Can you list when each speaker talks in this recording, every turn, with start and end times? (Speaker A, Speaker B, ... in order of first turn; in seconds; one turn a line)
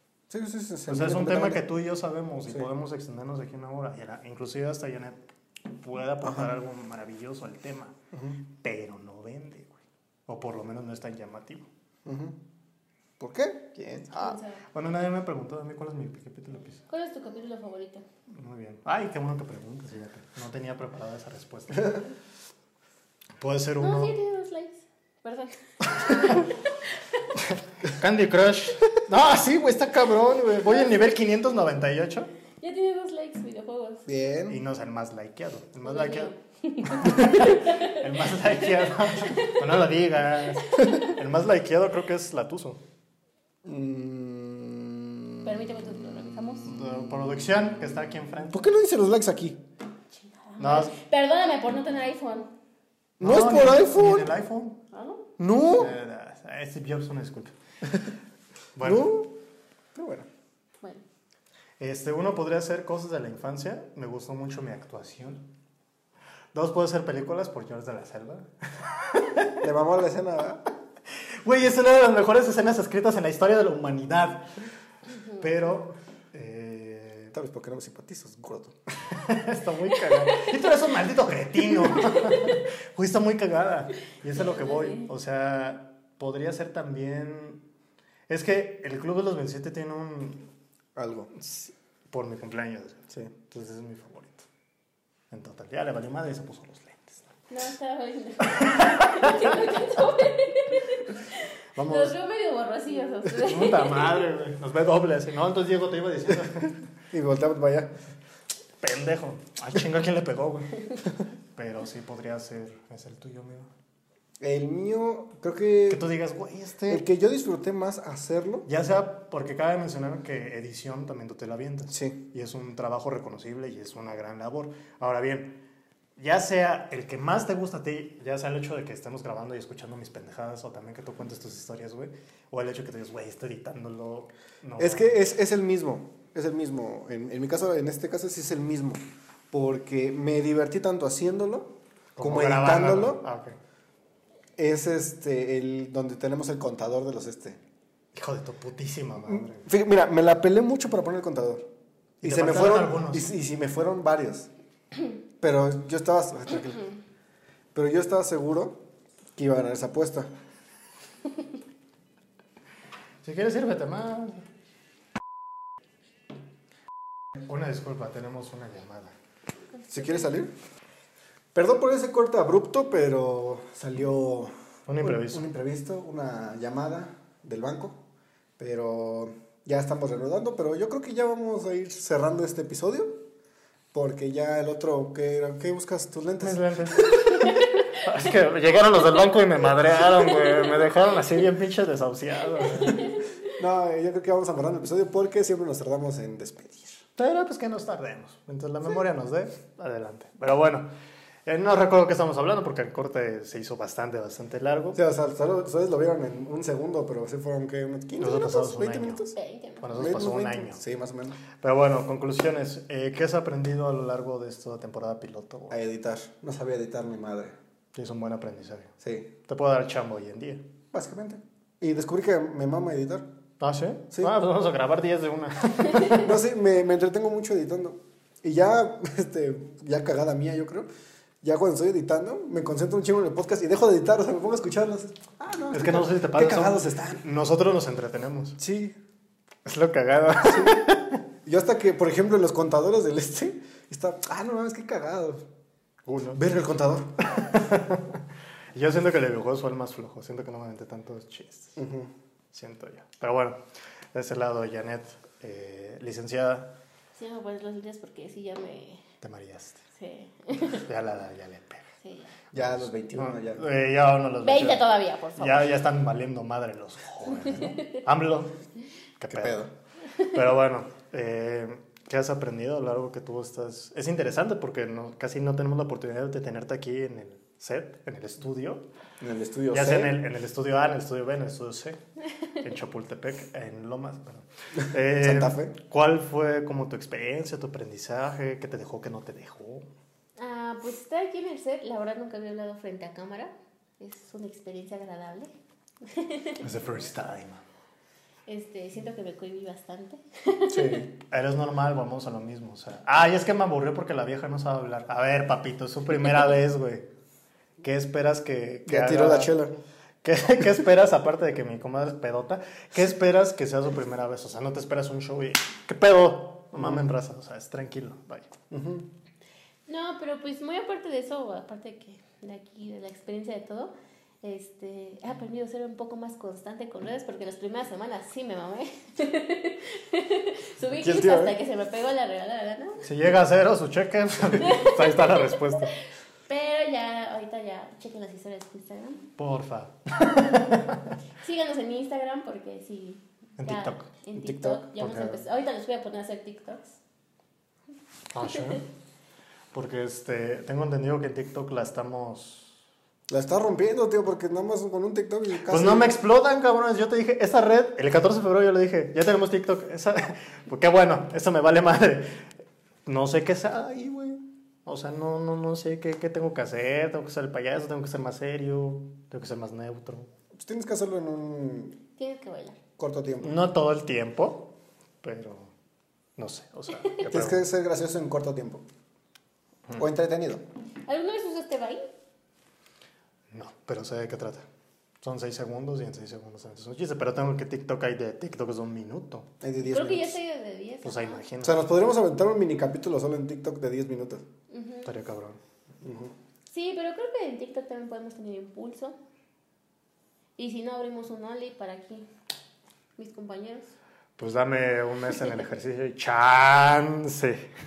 Speaker A: 0.3-1.6
Speaker B: 0.9-5.2
Speaker B: 5.7-8.0
Speaker A: 6.2-6.5
Speaker A: 8.1-8.4
Speaker B: 8.6-11.7
Speaker A: 12.1-12.4
Speaker A: 13.2-14.4
Speaker C: 14.2-14.6
Speaker B: 14.7-16.8
Speaker C: 16.9-18.0
Speaker B: 18.3-22.1
Speaker B: 23.4-24.1
Speaker C: 23.8-26.5
Speaker B: 26.1-26.5
Speaker B: 27.4-32.3
Speaker C: 32.6-34.1
Speaker A: 34.1-34.6
Speaker B: 34.5-36.3
Speaker C: 35.8-39.6
Speaker B: 37.0-42.8
Speaker C: 40.6-41.1
Speaker A: 43.6-45.4
Speaker C: 45.4-46.7
Speaker B: 46.6-48.7
Speaker A: 48.5-49.6
Speaker C: 50.1-52.5
Speaker B: 50.6-50.9
Speaker B: 53.2-54.8
Speaker A: 53.2-54.4
Speaker C: 54.9-55.2
Speaker A: 55.4-56.0
Speaker B: 55.8-57.5
Speaker B: 58.8-59.1
Speaker A: 58.8-59.3
Speaker A: 59.9-60.3
Speaker B: 61.8-65.5
Speaker B: 66.5-69.6
Speaker A: 69.6-70.7
Speaker B: 71.4-74.5
Speaker C: 75.2-75.4
Speaker B: 75.4-77.3
Speaker A: 77.3-78.8
Speaker B: 79.1-87.7
Speaker C: 80.0-80.5
Speaker C: 82.0-82.5
Speaker C: 84.3-85.1
Speaker B: 88.3-90.5
Speaker A: 91.0-91.3
Speaker B: 91.3-94.5
Speaker B: 95.3-97.3
Speaker C: 97.5-104.2
Speaker B: 98.5-99.6
Speaker B: 101.8-102.2
Speaker B: 103.3-106.9
Speaker A: 107.1-107.9
Speaker B: 108.8-113.7
Speaker A: 114.4-116.1
Speaker B: 115.9-117.0
Speaker A: 116.9-118.7
Speaker B: 118.7-125.6
Speaker A: 121.9-122.2
Speaker B: 126.2-135.2
Speaker A: 134.8-139.0
Speaker A: 139.5-143.2
Speaker B: 142.2-143.6
Speaker A: 144.6-147.6
Speaker B: 148.1-149.7
Speaker A: 149.2-151.7
Speaker B: 152.2-153.3
Speaker A: 152.2-154.5
Speaker A: 155.4-156.9
Speaker A: 157.7-158.8
Speaker A: 159.4-160.3
Speaker B: 163.2-164.4
Speaker B: 167.3-169.1
Speaker C: 169.7-170.3
Speaker A: 169.9-170.5
Speaker A: 171.5-178.0
Speaker B: 174.9-175.4
Speaker A: 178.6-183.2
Speaker A: 183.9-187.3
Speaker B: 186.4-193.1
Speaker C: 192.6-193.5
Speaker A: 193.6-197.0
Speaker B: 197.2-200.9
Speaker B: 201.5-205.0
Speaker A: 204.9-209.4
Speaker B: 208.2-209.2
Speaker C: 209.3-210.2
Speaker B: 209.8-210.8
Speaker A: 209.9-211.4
Speaker B: 211.6-215.8
Speaker A: 215.7-217.6
Speaker B: 217.9-218.9
Speaker A: 219.0-219.3
Speaker B: 219.4-220.7
Speaker A: 220.9-223.3
Speaker B: 223.6-226.3
Speaker A: 226.1-230.9
Speaker A: 231.4-237.2
Speaker B: 235.7-238.6
Speaker A: 238.6-239.0
Speaker B: 239.7-241.2
Speaker A: 240.4-240.8
Speaker A: 241.4-245.4
Speaker B: 246.1-246.4
Speaker A: 246.3-247.2
Speaker B: 247.2-248.2
Speaker B: 248.7-251.8
Speaker A: 251.8-252.1
Speaker B: 252.5-253.6
Speaker B: 254.1-256.8
Speaker C: 257.2-259.0
Speaker B: 259.2-259.8
Speaker C: 259.9-260.9
Speaker B: 260.6-261.9
Speaker C: 262.0-262.3
Speaker B: 262.5-268.6
Speaker A: 262.5-263.6
Speaker C: 264.4-265.7
Speaker C: 267.7-268.0
Speaker B: 269.2-269.6
Speaker A: 269.3-269.7
Speaker B: 270.2-278.9
Speaker A: 279.2-280.2
Speaker B: 279.7-282.0
Speaker B: 282.6-289.9
Speaker A: 285.1-285.7
Speaker C: 290.4-295.5
Speaker C: 296.0-296.6
Speaker B: 296.6-297.6
Speaker C: 298.5-301.1
Speaker A: 300.7-301.1
Speaker B: 301.2-307.1
Speaker B: 307.8-309.6
Speaker A: 308.9-309.8
Speaker B: 310.2-318.5
Speaker A: 316.8-317.1
Speaker A: 318.7-319.1
Speaker C: 319.9-333.1
Speaker A: 330.9-331.6
Speaker B: 333.0-335.9
Speaker C: 334.6-335.3
Speaker C: 336.5-339.3
Speaker B: 339.4-341.1
Speaker C: 341.4-347.0
Speaker B: 343.6-344.1
Speaker A: 344.4-344.9
Speaker B: 345.0-345.4
Speaker B: 348.3-348.9
Speaker B: 349.7-352.8
Speaker A: 353.3-356.1
Speaker B: 355.7-362.4
Speaker B: 363.1-370.3
Speaker A: 370.6-372.0
Speaker C: 372.2-372.8
Speaker A: 373.0-373.5
Speaker B: 373.4-375.7
Speaker B: 376.4-377.6
Speaker A: 377.2-378.8
Speaker A: 380.0-380.6
Speaker C: 381.0-382.1
Speaker B: 383.5-384.6
Speaker B: 385.2-389.5
Speaker A: 389.6-390.4
Speaker C: 389.9-391.4
Speaker B: 391.0-391.8
Speaker A: 391.6-394.4
Speaker C: 394.7-395.1
Speaker B: 395.1-395.6
Speaker A: 396.0-396.3
Speaker C: 396.7-399.2
Speaker C: 400.6-402.3
Speaker C: 403.2-403.9
Speaker B: 404.4-407.7